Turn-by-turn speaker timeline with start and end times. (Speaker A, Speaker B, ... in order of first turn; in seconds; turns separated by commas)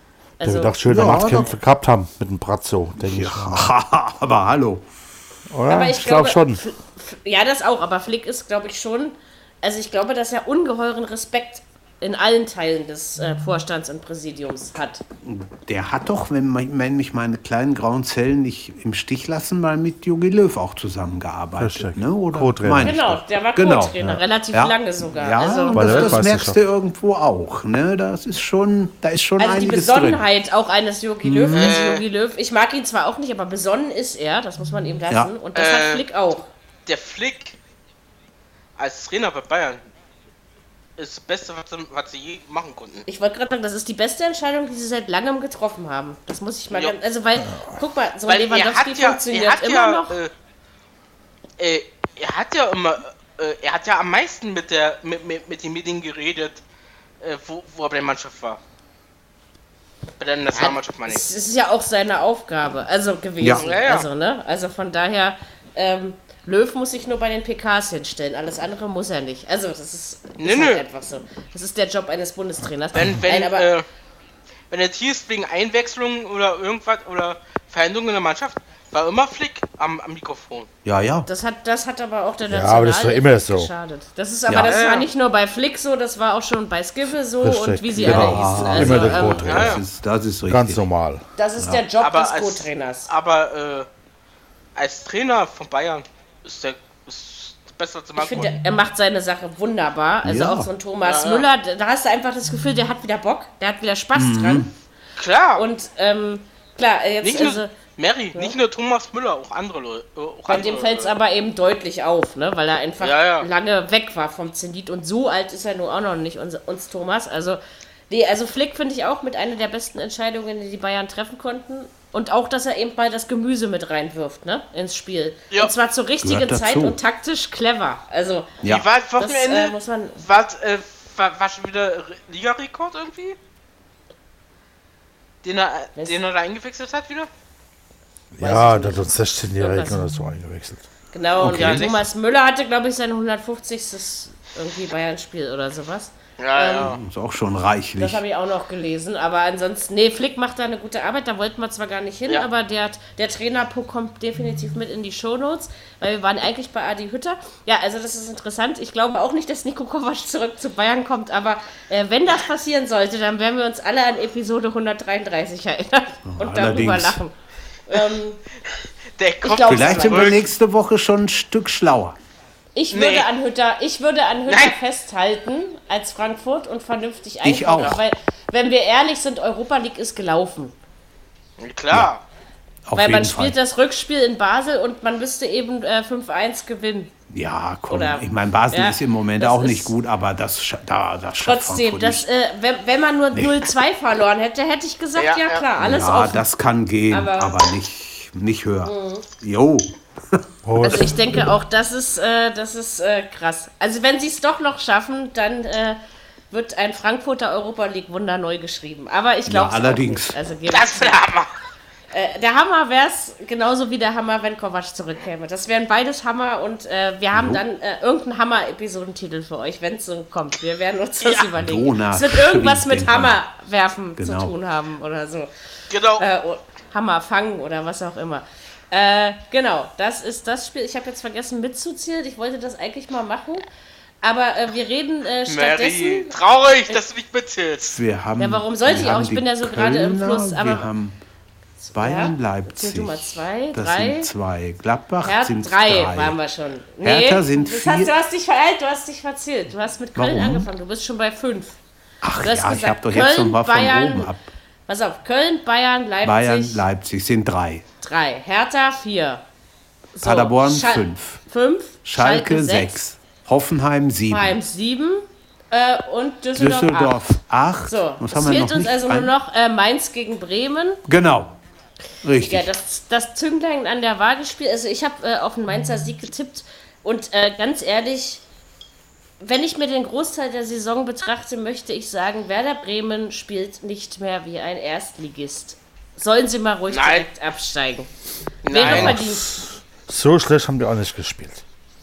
Speaker A: 0.4-1.4, Speaker B: 0.4-3.7, Speaker C: 0.8-1.5, Speaker C: 3.0-4.8, Speaker B: 5.5-6.6, Speaker A: 5.7-15.0, Speaker C: 15.2-30.2, Speaker B: 21.6-23.0, Speaker A: 22.8-26.2, Speaker B: 25.7-26.6, Speaker A: 29.4-36.5, Speaker C: 31.2-31.7, Speaker D: 31.5-32.0, Speaker D: 35.5-36.0, Speaker D: 36.9-37.5, Speaker D: 38.8-39.8, Speaker D: 41.0-43.0, Speaker A: 43.1-50.1, Speaker D: 48.3-50.3, Speaker D: 51.6-56.6, Speaker D: 57.2-58.6, Speaker D: 60.2-61.2, Speaker A: 60.5-73.7, Speaker C: 63.4-63.6, Speaker D: 63.6-64.0, Speaker D: 70.4-70.8, Speaker D: 72.9-73.8, Speaker D: 74.7-80.7, Speaker C: 80.8-81.3, Speaker A: 81.2-89.5, Speaker B: 82.5-83.7, Speaker C: 84.5-84.7, Speaker D: 84.6-85.1, Speaker B: 87.4-89.8, Speaker C: 88.0-90.8, Speaker D: 89.4-89.8, Speaker B: 90.5-91.2, Speaker A: 91.4-93.1, Speaker C: 91.6-91.8, Speaker D: 92.0-93.9, Speaker D: 94.8-98.5, Speaker A: 98.2-104.7, Speaker C: 100.2-100.7, Speaker D: 101.0-101.5, Speaker C: 104.1-104.7, Speaker D: 105.2-105.6, Speaker A: 105.5-107.7, Speaker D: 107.2-111.1, Speaker A: 110.5-128.5, Speaker D: 113.0-113.5, Speaker C: 126.2-127.0, Speaker D: 128.6-133.4, Speaker A: 129.2-130.2, Speaker D: 135.4-137.3, Speaker B: 138.3-140.8, Speaker A: 138.4-140.0, Speaker A: 141.1-146.9, Speaker D: 141.3-142.0, Speaker B: 141.4-141.8, Speaker D: 146.4-147.0, Speaker C: 146.8-148.2, Speaker A: 148.0-167.3, Speaker C: 166.2-167.2, Speaker A: 167.9-168.4, Speaker D: 169.2-170.4, Speaker A: 169.4-170.4, Speaker C: 169.6-172.2, Speaker A: 172.7-180.7, Speaker D: 172.9-173.3, Speaker D: 174.5-174.7, Speaker C: 177.4-178.0, Speaker D: 181.6-182.2, Speaker C: 182.9-183.5, Speaker A: 182.9-187.1, Speaker C: 187.3-192.2, Speaker A: 187.9-189.9, Speaker A: 191.4-196.4, Speaker C: 193.3-193.7, Speaker D: 195.2-195.7, Speaker C: 195.8-201.1, Speaker A: 197.1-197.6, Speaker A: 198.8-199.2, Speaker B: 200.6-201.1, Speaker A: 200.8-206.0, Speaker A: 206.5-211.2, Speaker C: 209.4-210.4, Speaker D: 210.7-211.5, Speaker A: 212.1-225.5, Speaker C: 217.3-217.6, Speaker D: 221.2-221.5, Speaker C: 221.6-223.4, Speaker C: 224.2-224.5, Speaker D: 225.9-226.2, Speaker A: 226.1-233.6, Speaker A: 234.2-236.3, Speaker D: 235.5-238.0, Speaker C: 237.9-241.2, Speaker A: 238.4-240.9, Speaker A: 241.8-244.3, Speaker C: 241.9-246.4, Speaker A: 245.2-251.8, Speaker C: 247.0-248.1, Speaker C: 250.2-250.7, Speaker C: 252.2-254.5, Speaker A: 252.4-254.3, Speaker A: 254.9-256.8, Speaker C: 256.2-257.8, Speaker A: 258.0-259.4, Speaker A: 260.1-263.0, Speaker C: 260.2-261.4, Speaker C: 262.0-264.6, Speaker A: 264.3-267.3, Speaker C: 266.6-269.3, Speaker A: 267.9-271.0, Speaker C: 271.1-271.6, Speaker C: 272.2-272.7, Speaker A: 272.4-278.4, Speaker A: 279.4-288.1, Speaker D: 286.9-287.2, Speaker D: 288.6-289.2, Speaker A: 288.6-289.5, Speaker B: 288.8-291.6